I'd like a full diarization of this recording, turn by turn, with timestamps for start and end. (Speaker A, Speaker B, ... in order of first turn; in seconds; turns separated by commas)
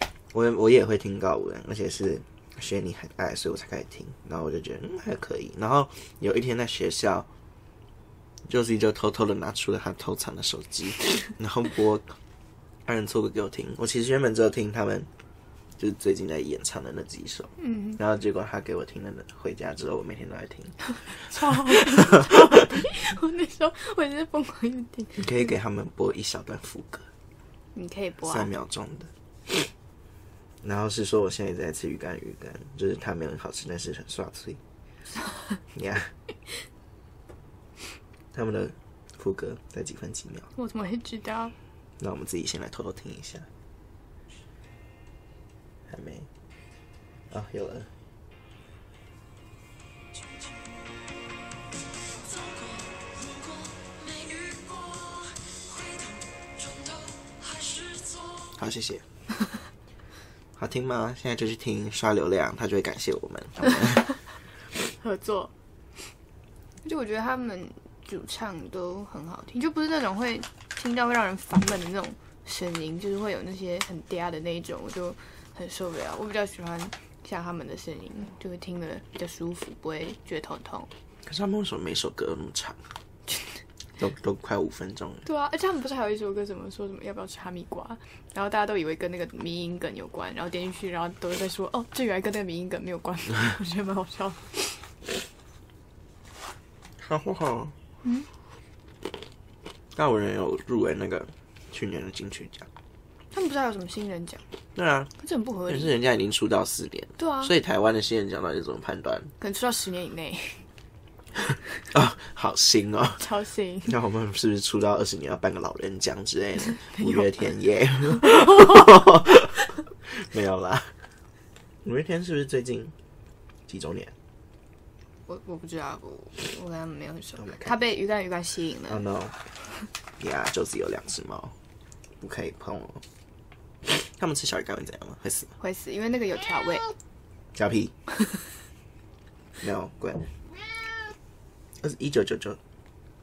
Speaker A: 0.3-7.3, Speaker A: 8.5-12.2, Speaker A: 12.9-15.1, Speaker A: 15.8-22.3, Speaker B: 17.6-18.0, Speaker B: 21.3-25.5, Speaker A: 25.2-27.1, Speaker B: 27.7-28.5, Speaker A: 28.3-29.1, Speaker A: 30.6-34.6, Speaker A: 35.7-36.1, Speaker A: 38.3-40.5, Speaker B: 40.6-41.5, Speaker A: 42.0-43.5, Speaker A: 45.9-46.3, Speaker A: 47.3-47.9, Speaker C: 52.3-52.8, Speaker C: 53.4-58.2, Speaker A: 58.5-59.0, Speaker A: 60.6-64.2, Speaker B: 65.0-65.5, Speaker B: 66.8-80.9, Speaker A: 81.2-82.8, Speaker A: 84.0-85.2, Speaker B: 85.2-94.8, Speaker A: 97.0-97.7, Speaker A: 99.9-102.7, Speaker B: 103.3-104.4, Speaker A: 104.8-105.1, Speaker B: 105.2-105.9, Speaker A: 105.7-109.3, Speaker B: 107.2-107.5, Speaker B: 109.4-110.6, Speaker A: 111.9-113.2, Speaker B: 113.2-113.9, Speaker A: 113.9-120.9, Speaker B: 116.8-117.5, Speaker B: 118.2-118.6, Speaker A: 121.8-122.9, Speaker A: 123.7-124.1, Speaker B: 125.3-129.0, Speaker A: 127.4-127.7, Speaker A: 128.9-129.4, Speaker A: 130.2-131.5, Speaker A: 132.2-133.0, Speaker A: 133.9-135.5, Speaker B: 135.6-136.9, Speaker A: 137.6-137.9, Speaker A: 139.6-140.3, Speaker A: 141.8-142.6